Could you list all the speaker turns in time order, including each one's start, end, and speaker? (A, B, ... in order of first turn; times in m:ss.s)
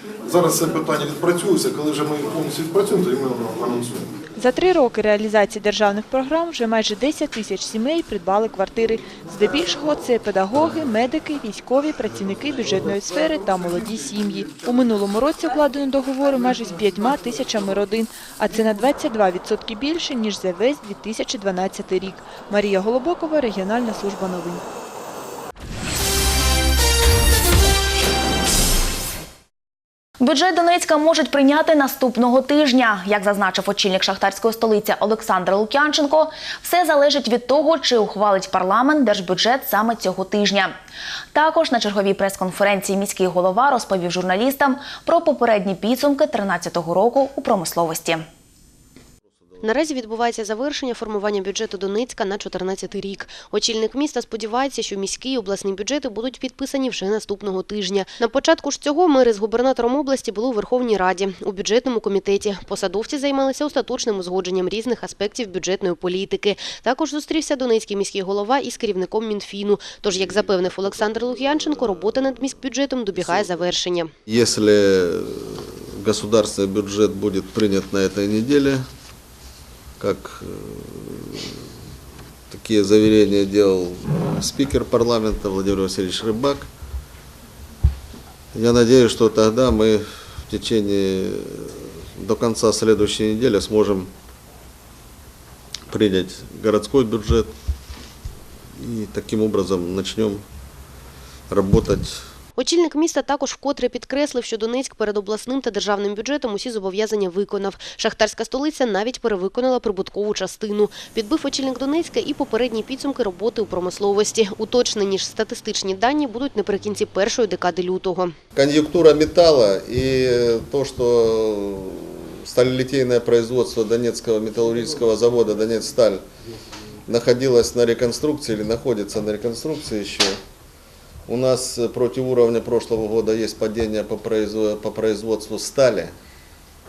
0:00.2-0:04.1 A
0:04.4-0:24.6 B
0:30.2-0:40.7 C
0:41.3-0:48.2 C
0:49.6-1:14.1 D
1:14.2-1:18.8 E
1:20.0-1:21.6 E
1:22.5-1:26.7 E
1:28.5-1:34.1 E
1:35.9-1:37.5 E
1:38.8-1:40.4 E
1:41.5-1:42.2 E
1:42.6-1:58.3 D
1:58.5-2:06.2 E
2:07.1-2:10.4 E
2:11.2-2:16.1 E